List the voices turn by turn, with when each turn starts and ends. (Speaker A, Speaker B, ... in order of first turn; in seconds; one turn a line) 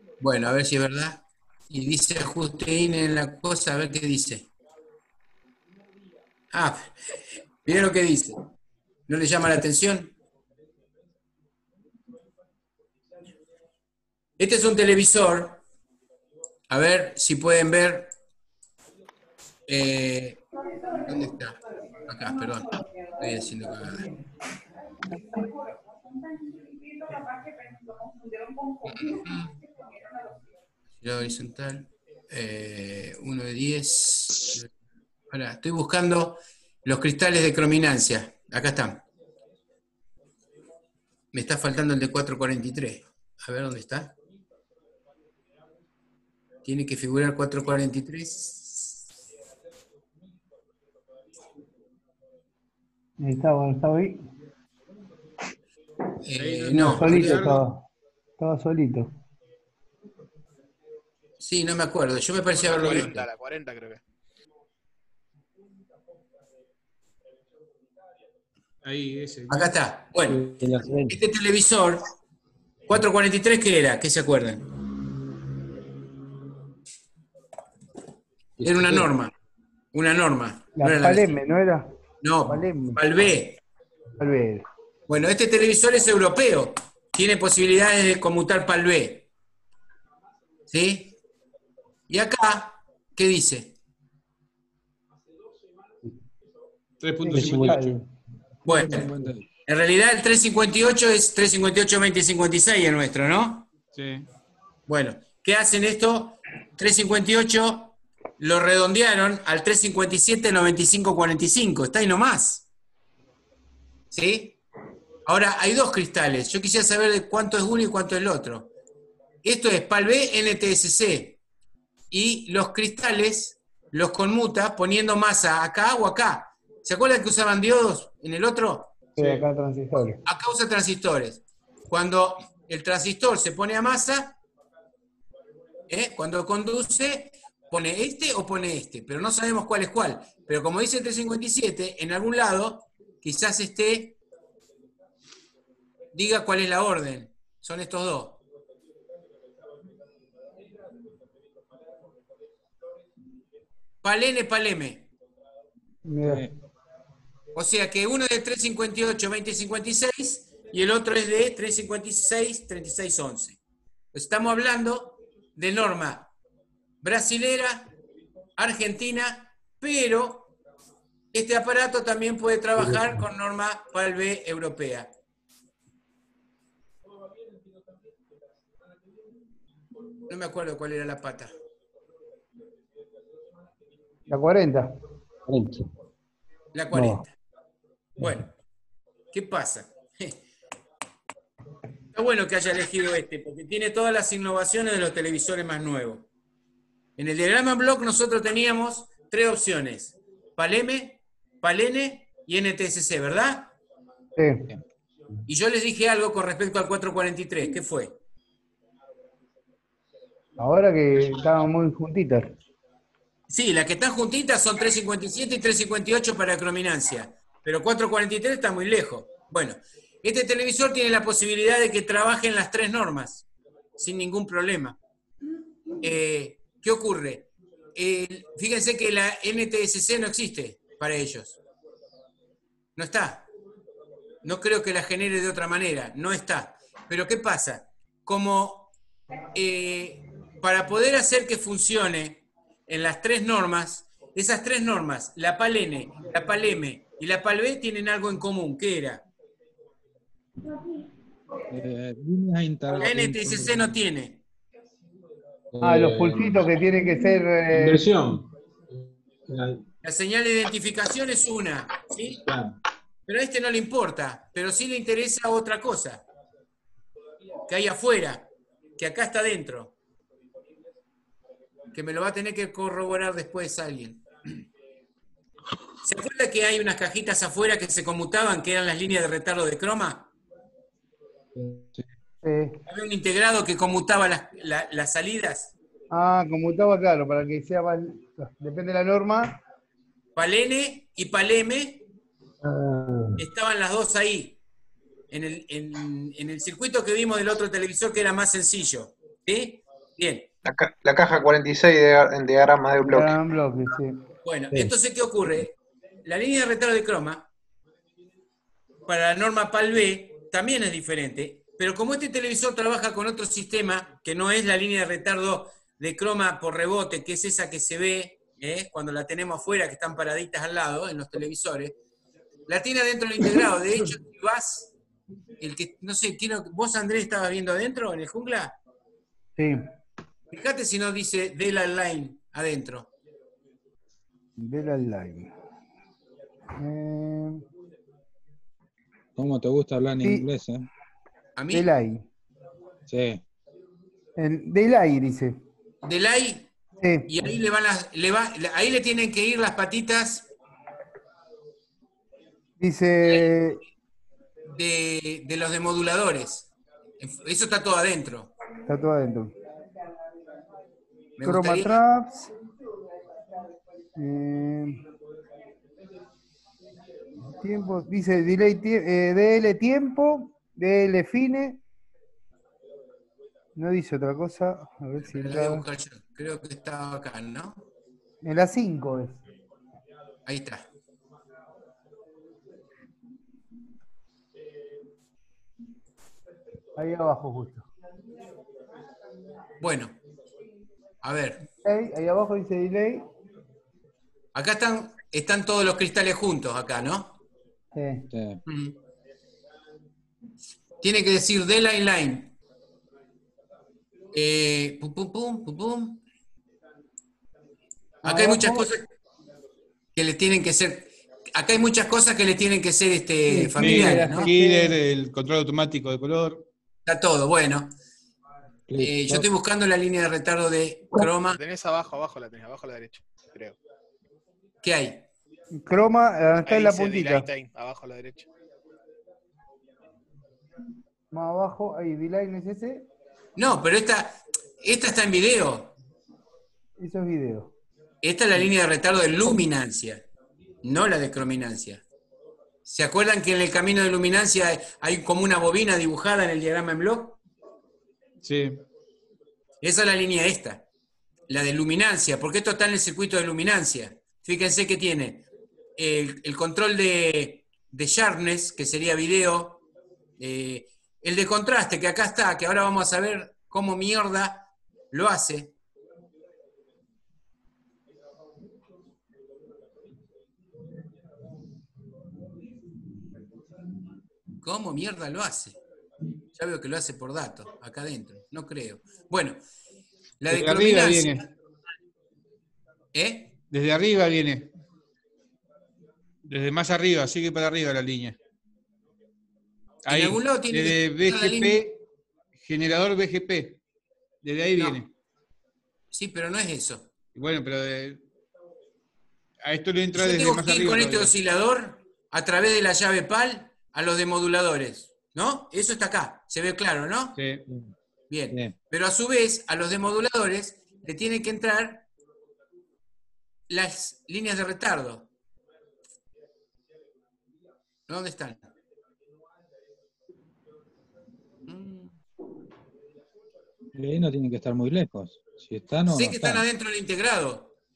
Speaker A: 0.2-4.5
Speaker A: 6.5-8.4
Speaker A: 9.1-10.1
Speaker A: 14.4-15.6
Speaker A: 16.7-18.1
Speaker A: 19.7-20.4
Speaker A: 21.0-24.1
Speaker A: 28.9-29.5
Speaker A: 31.0-34.7
Speaker A: 35.3-39.0
Speaker A: 41.3-44.1
Speaker A: 46.6-49.0
Speaker B: 53.2-54.2
Speaker A: 56.2-57.6
Speaker C: 56.3-57.6
Speaker B: 56.7-57.8
Speaker B: 58.4-59.1
Speaker A: 61.4-63.2
Speaker C: 62.5-63.2
Speaker D: 62.7-64.0
Speaker C: 68.8-69.7
Speaker A: 69.5-72.0
Speaker E: 70.3-71.2
Speaker A: 72.9-74.6
Speaker A: 78.6-79.3
Speaker E: 78.6-79.1
Speaker A: 79.9-81.4
Speaker B: 80.8-81.9
Speaker A: 82.2-83.6
Speaker B: 82.5-83.0
Speaker B: 84.2-84.6
Speaker A: 85.1-89.3
Speaker A: 90.7-91.1
Speaker A: 92.1-93.7
Speaker C: 97.0-97.9
Speaker B: 97.2-98.0
Speaker E: 97.3-98.0
Speaker A: 98.6-99.1
Speaker F: 98.9-99.4
Speaker A: 99.7-103.7
Speaker C: 103.9-104.3
Speaker A: 104.9-112.7
Speaker A: 114.1-114.6
Speaker A: 115.2-118.7
Speaker A: 119.4-121.4
Speaker A: 122.1-128.9
Speaker B: 129.2-130.2
Speaker A: 130.2-134.3
Speaker A: 135.9-144.2
Speaker A: 146.1-148.4
Speaker A: 154.0-155.1
Speaker B: 156.0-156.5
Speaker F: 156.2-156.5
Speaker A: 157.5-163.6
Speaker A: 164.1-166.3
Speaker A: 167.0-167.9
Speaker A: 168.6-170.5
Speaker A: 171.3-175.1
Speaker E: 172.8-173.2
Speaker A: 180.3-181.5
Speaker B: 184.3-184.9
Speaker E: 185.5-185.9
Speaker A: 186.7-187.3
Speaker E: 186.9-187.2
Speaker A: 188.2-188.5
Speaker A: 189.3-190.4
Speaker A: 192.1-196.3
Speaker A: 197.2-203.7
Speaker B: 204.4-204.7
Speaker A: 205.5-208.2
Speaker B: 210.6-212.5
Speaker A: 213.5-223.4
Speaker A: 224.0-225.0
Speaker A: 226.0-231.6
Speaker A: 232.9-233.5
Speaker A: 234.4-238.9
Speaker A: 239.5-249.2
Speaker F: 251.7-253.9
Speaker A: 252.9-254.4
Speaker G: 255.7-256.6
Speaker B: 255.8-258.1
Speaker G: 257.7-259.8
Speaker A: 260.0-262.4
Speaker G: 262.4-262.8
Speaker A: 263.3-266.2
Speaker A: 267.6-269.9
Speaker A: 271.9-274.6
Speaker A: 276.0-280.3
Speaker F: 281.7-282.1
Speaker B: 282.4-282.8
Speaker A: 282.9-285.7
Speaker B: 286.1-289.6
Speaker A: 290.4-292.0
Speaker E: 292.6-293.4
Speaker A: 293.4-294.6
Speaker A: 295.3-300.5
Speaker H: 300.6-303.4
Speaker B: 303.0-304.2
Speaker A: 304.4-305.7
Speaker A: 306.2-307.5
Speaker A: 309.1-321.9
Speaker A: 322.7-324.9
Speaker A: 325.6-328.8
Speaker B: 329.6-329.8
Speaker A: 330.5-333.1
Speaker B: 334.6-335.5
Speaker B: 336.7-337.6
Speaker F: 339.4-340.9
Speaker A: 341.6-341.9
Speaker B: 341.7-342.2
Speaker F: 343.1-343.4
Speaker B: 344.4-345.6
Speaker A: 346.0-346.7
Speaker B: 347.0-347.3
Speaker A: 347.3-350.5
Speaker B: 352.8-353.8
Speaker A: 354.7-356.7
Speaker A: 357.2-358.5
Speaker B: 358.8-359.5
Speaker A: 361.4-362.0
Speaker B: 361.4-362.5
Speaker B: 364.1-365.0
Speaker B: 367.6-371.8
Speaker B: 373.8-375.8
Speaker A: 375.2-377.8
Speaker B: 378.4-379.4
Speaker A: 380.4-380.9
Speaker B: 386.9-387.9
Speaker A: 389.8-390.2
Speaker A: 391.2-391.6
Speaker B: 391.8-393.3
Speaker A: 394.5-397.4
Speaker B: 397.9-398.2
Speaker F: 398.3-398.6
Speaker A: 398.6-398.9
Speaker A: 401.0-402.5
Speaker A: 404.3-406.2
Speaker B: 408.2-408.9
Speaker A: 408.2-409.1
Speaker A: 410.1-414.5
Speaker B: 413.5-414.9
Speaker E: 413.8-414.4
Speaker C: 413.8-416.6
Speaker A: 417.1-417.9
Speaker F: 418.9-419.4
Speaker A: 419.0-421.6
Speaker D: 421.4-423.8
Speaker A: 424.8-425.3
Speaker B: 425.7-427.5
Speaker D: 426.6-428.5
Speaker B: 431.3-433.1
Speaker A: 433.6-435.9
Speaker B: 437.0-437.7
Speaker A: 438.2-440.2
Speaker A: 440.8-442.0
Speaker A: 442.9-447.4
Speaker C: 448.4-448.8
Speaker A: 449.8-450.8
Speaker A: 451.5-455.4
Speaker A: 456.0-459.8
Speaker A: 460.4-465.7
Speaker A: 474.6-475.8
Speaker A: 476.6-479.6
Speaker A: 480.4-481.5
Speaker C: 480.5-481.4
Speaker A: 483.1-483.6
Speaker C: 483.7-484.7
Speaker C: 486.4-488.4
Speaker A: 490.1-491.8
Speaker C: 490.1-492.0
Speaker C: 492.6-493.8
Speaker C: 494.4-495.1
Speaker A: 496.1-497.1
Speaker C: 497.3-498.2
Speaker C: 499.6-501.3
Speaker A: 500.1-507.4
Speaker C: 507.4-507.6
Speaker A: 508.3-512.0
Speaker A: 513.7-515.3
Speaker A: 518.1-518.7
Speaker A: 521.7-522.1
Speaker F: 523.9-526.6
Speaker A: 526.1-527.7